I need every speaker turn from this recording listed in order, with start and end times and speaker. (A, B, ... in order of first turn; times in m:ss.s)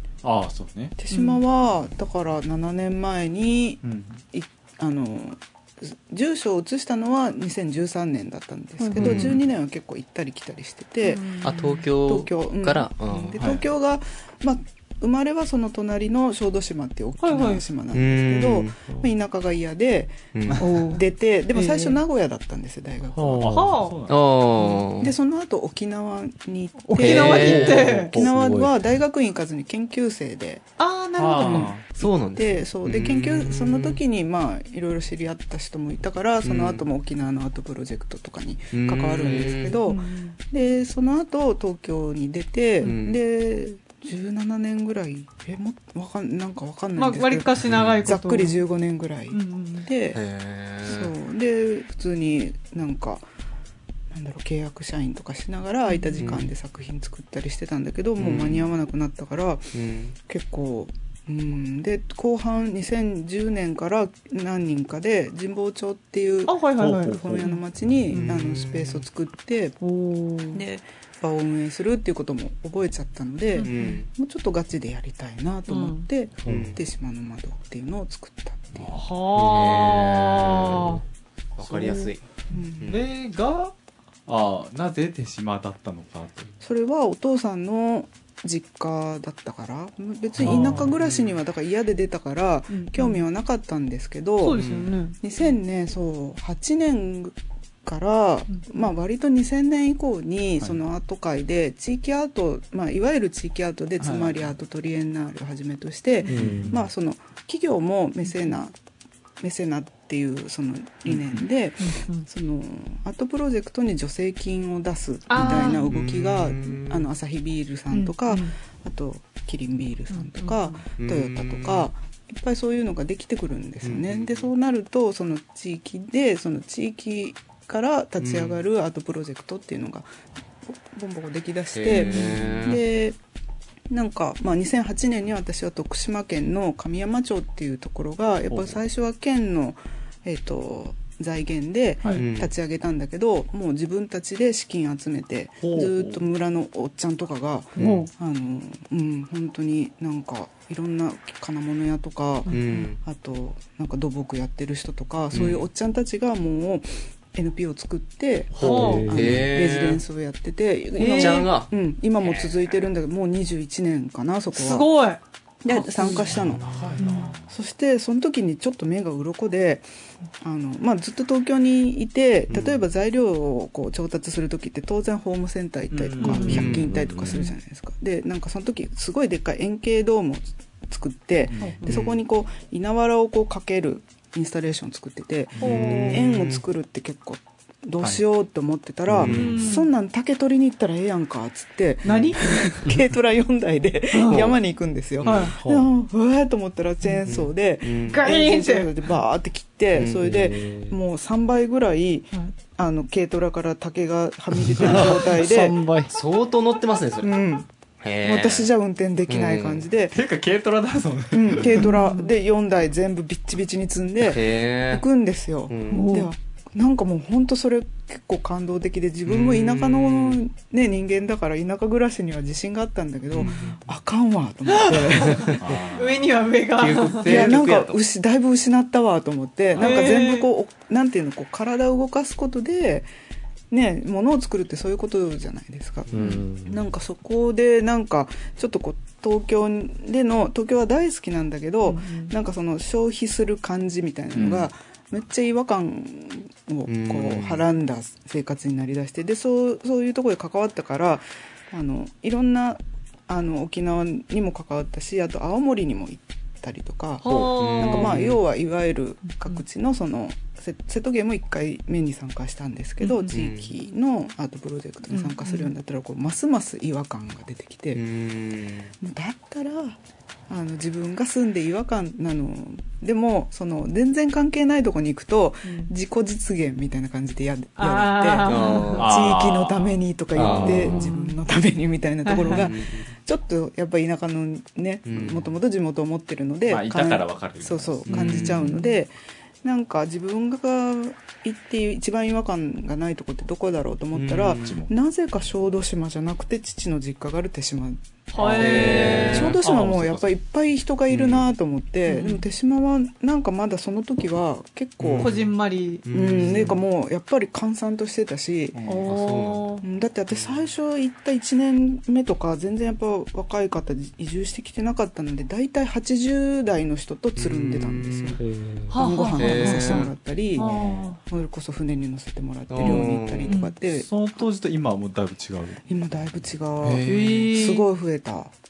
0:00.2-0:01.0 A
0:01.0-0:03.8 B
0:01.1-0:01.4 C
0:03.8-0:04.2 A
0:04.3-0:23.5 B
0:08.8-0:09.3 C
0:09.0-0:09.4 D
0:09.0-0:09.3 A
0:11.0-0:11.8 C
0:11.4-0:13.4 D
0:13.4-0:13.6 A
0:17.2-0:17.6 C
0:17.9-0:18.8 D
0:20.3-0:20.6 D
0:20.6-0:21.0 C
0:21.5-0:22.0 C
0:23.1-0:23.7 E
0:23.4-0:24.2 A
0:23.5-0:24.0 C
0:24.1-0:25.1 D
0:25.0-0:30.6 B
0:26.8-0:28.1 C
0:27.0-0:27.9 D
0:27.1-0:28.2 A
0:28.1-0:28.7 E
0:30.8-0:31.7 C
0:31.2-0:31.9 A
0:31.4-0:50.2 B
0:31.9-0:34.0 D
0:36.4-0:36.8 D
0:38.7-0:39.8 D
0:39.8-0:40.4 C
0:42.8-0:43.2 D
0:47.0-0:48.6 C
0:47.7-0:48.0 D
0:49.3-0:49.9 C
0:50.1-0:51.1 D
0:50.8-0:53.3 B
0:54.1-0:59.7 B
0:55.9-0:56.4 C
0:56.2-0:56.5 D
0:58.2-0:58.7 D
0:59.7-1:00.1 D
1:00.3-1:09.8 B
1:06.5-1:08.4 C
1:06.8-1:07.4 A
1:08.2-1:09.0 D
1:09.8-1:10.6 C
1:10.5-1:18.9 B
1:13.6-1:14.0 C
1:13.6-1:14.1 D
1:15.7-1:16.1 C
1:16.4-1:16.8 E
1:16.4-1:16.8 D
1:18.8-1:19.1 A
1:19.0-1:21.0 C
1:19.4-1:21.0 D
1:21.6-1:22.3 D
1:21.6-1:22.1 A
1:22.5-1:22.9 B
1:22.8-1:23.0 D
1:22.9-1:23.7 A
1:24.3-1:26.5 A
1:26.6-1:34.6 B
1:30.4-1:30.9 A
1:30.4-1:30.9 C
1:30.4-1:31.4 D
1:32.7-1:33.2 C
1:34.4-1:35.2 C
1:34.5-1:34.9 D
1:35.2-1:48.8 B
1:44.0-1:44.5 A
1:46.2-1:46.7 C
1:46.3-1:46.8 E
1:48.3-1:48.5 C
1:49.4-2:10.1 B
1:51.8-1:52.3 C
1:55.3-1:55.9 C
1:55.4-1:57.1 D
1:57.9-1:58.6 C
2:00.1-2:00.8 C
2:01.0-2:01.9 D
2:03.8-2:04.5 D
2:08.2-2:08.6 D
2:10.6-2:13.2 B
2:11.8-2:12.8 D
2:12.0-2:12.4 C
2:13.9-2:44.9 B
2:18.5-2:18.8 A
2:22.1-2:22.5 D
2:25.6-2:26.2 A
2:27.8-2:28.1 C
2:32.5-2:32.9 C
2:32.5-2:33.0 D
2:35.3-2:35.6 D
2:38.6-2:39.0 A
2:38.6-2:39.4 E
2:38.6-2:39.1 C
2:39.1-2:40.0 D
2:41.0-2:41.5 C
2:41.0-2:42.8 D
2:44.5-2:46.3 C
2:45.6-2:49.9 B
2:46.2-2:47.5 A
2:46.3-2:46.9 D
2:47.0-2:47.3 C
2:50.4-3:25.8 B
2:52.5-2:52.8 D
2:55.9-2:57.0 A
2:56.2-2:56.7 C
2:56.4-2:56.9 D
2:56.6-2:57.4 E
2:57.3-2:57.5 C
3:01.5-3:01.8 A
3:01.6-3:02.0 C
3:01.9-3:02.2 D
3:05.6-3:06.0 A
3:05.6-3:06.2 C
3:05.7-3:06.6 D
3:09.1-3:09.6 D
3:09.3-3:09.9 C
3:12.0-3:12.6 C
3:14.1-3:14.4 C
3:14.3-3:14.6 D
3:15.2-3:15.5 D
3:15.2-3:15.5 C
3:15.6-3:15.9 E
3:17.2-3:18.2 D
3:18.1-3:19.0 C
3:19.9-3:20.3 D
3:20.0-3:21.0 E
3:24.7-3:26.1 E
3:26.1-3:27.4 D
3:27.2-3:27.7 B
3:28.0-3:28.7 D
3:28.2-3:30.2 B
3:29.3-3:29.9 D
3:30.1-3:31.9 A
3:31.3-3:45.5 B
3:31.7-3:32.3 C
3:34.2-3:35.0 D
3:35.7-3:36.1 D
3:35.9-3:36.3 C
3:39.3-3:40.4 D
3:43.4-3:43.7 D
3:43.4-3:43.8 C
3:44.7-3:47.5 C
3:45.2-3:45.5 D
3:45.6-3:46.4 A
3:46.8-3:48.0 D
3:47.2-3:53.1 B
3:49.8-3:50.5 C
3:53.7-4:28.0 B
3:56.1-3:56.4 D
3:56.1-3:56.8 E
4:01.8-4:02.3 C
4:06.9-4:07.6 D
4:17.2-4:18.3 C
4:17.3-4:18.4 D
4:19.3-4:19.6 C
4:23.0-4:23.4 C
4:23.3-4:23.7 D
4:25.1-4:25.7 C
4:27.9-4:28.9 D
4:29.0-5:05.4 B
4:35.6-4:35.9 C
4:37.8-4:39.0 C
4:38.4-4:39.1 D
4:39.0-4:40.9 A
4:40.4-4:41.0 D
4:40.8-4:41.4 C
4:42.3-4:42.7 C
4:42.5-4:43.1 D
4:45.1-4:45.5 D
4:46.7-4:48.3 A
4:48.1-4:48.7 D
4:48.1-4:48.9 C
4:54.1-4:54.8 D
4:54.6-4:54.9 A
4:58.3-4:59.5 C
4:58.5-5:00.3 A
4:58.6-4:59.6 D
5:01.1-5:01.4 D
5:02.1-5:02.4 C
5:05.0-5:05.3 D
5:05.2-5:06.8 C
5:06.0-5:06.8 D
5:06.1-5:08.8 B
5:08.7-5:09.1 A
5:08.9-5:09.8 C
5:09.1-5:09.7 D
5:09.8-5:24.1 B
5:17.4-5:18.4 D
5:18.4-5:19.0 E
5:18.9-5:21.2 C
5:19.4-5:20.1 D
5:20.6-5:21.2 A
5:22.7-5:23.5 D
5:23.5-5:23.8 C
5:23.8-5:25.9 A
5:25.8-5:28.5 B
5:26.8-5:27.7 A
5:27.1-5:27.8 C